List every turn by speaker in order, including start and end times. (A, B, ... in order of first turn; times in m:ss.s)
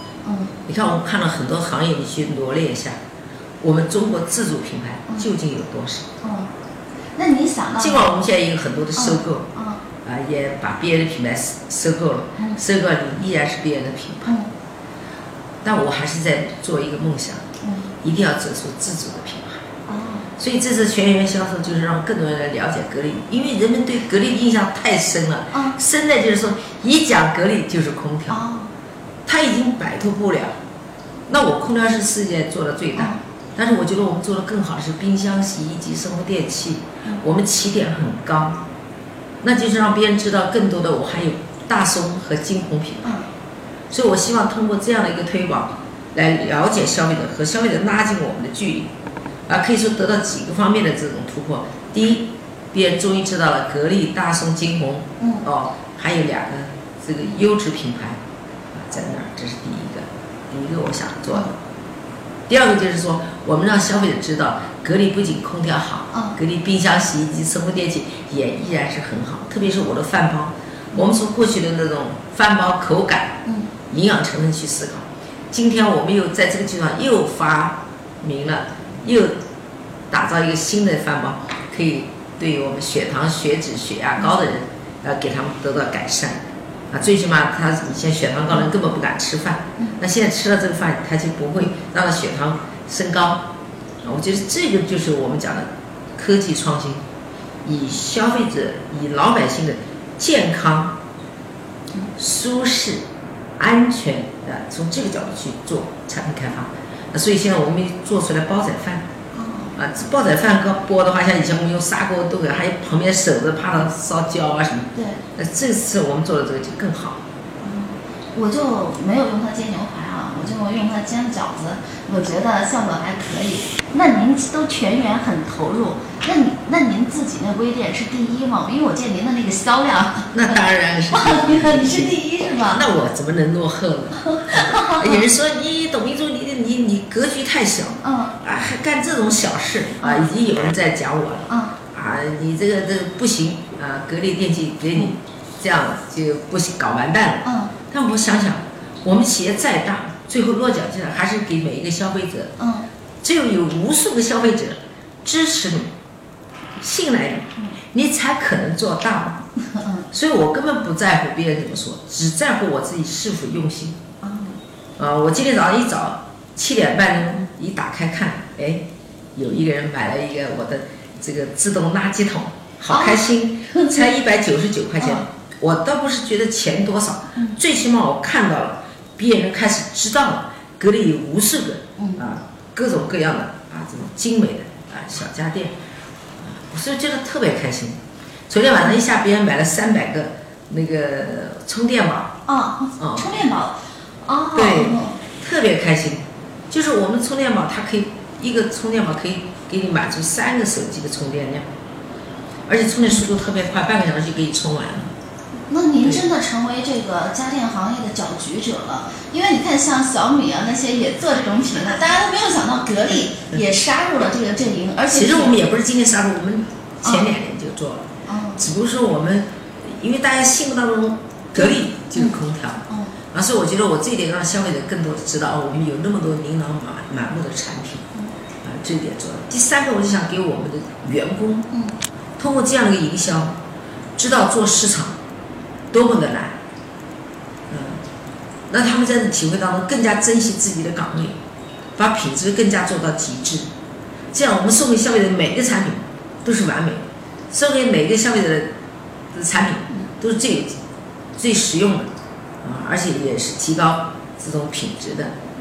0:00.2-0:00.5 A
0:00.7-0:03.0 B
0:03.6-0:06.1 B
0:06.2-0:06.5 A
0:07.2-0:08.1 A
0:07.8-0:09.5 B
0:08.9-0:09.8 A
0:10.0-0:14.3 B
0:15.6-0:17.4 B
0:17.6-0:17.9 A
0:18.0-0:19.6 B
0:19.9-0:20.3 A
0:20.4-0:28.4 B
0:25.5-0:25.8 A
0:28.3-0:28.7 A
0:29.2-0:30.5 B
0:31.3-0:38.6 B
0:39.4-0:43.1 B
0:43.9-0:48.9 B
0:49.5-0:58.2 B
0:55.2-0:55.5 A
0:58.7-1:01.5 B
1:02.5-1:19.4 B
1:06.1-1:06.4 A
1:13.4-1:13.7 A
1:20.1-1:26.4 B
1:26.9-1:33.4 B
1:34.0-1:37.0 B
1:37.6-1:40.9 B
1:42.2-1:43.0 B
1:43.6-1:49.0 B
1:49.3-1:49.7 A
1:49.7-1:57.2 B
1:57.6-2:10.6 A
2:10.3-2:12.2 B
2:11.1-2:12.8 A
2:12.7-2:32.5 B
2:14.2-2:15.2 A
2:18.0-2:18.3 A
2:20.0-2:20.2 A
2:21.5-2:21.8 A
2:27.4-2:27.7 A
2:32.6-2:32.8 A
2:33.2-2:35.9 B
2:36.8-2:39.4 B
2:39.7-2:40.0 A
2:40.1-2:44.0 B
2:44.2-2:44.6 A
2:45.0-2:48.8 B
2:49.3-3:05.7 B
2:52.9-2:54.1 A
2:55.0-2:55.2 A
3:06.4-3:08.0 B
3:08.5-3:12.4 B
3:12.5-3:15.2 A
3:13.0-3:13.3 B
3:14.5-3:21.6 B
3:22.7-3:25.1 B
3:25.7-3:35.5 A
3:35.1-3:48.0 B
3:37.0-3:37.3 A
3:38.2-3:38.6 A
3:41.6-3:42.4 A
3:42.9-3:43.1 A
3:48.6-3:51.7 B
3:52.4-3:53.5 B
3:54.2-3:55.1 B
3:55.9-3:56.5 B
3:57.7-3:58.0 B
3:58.7-4:01.4 B
4:02.0-4:03.7 B
4:04.3-4:08.7 B
4:09.3-4:10.7 B
4:11.4-4:12.1 B
4:12.6-4:15.3 B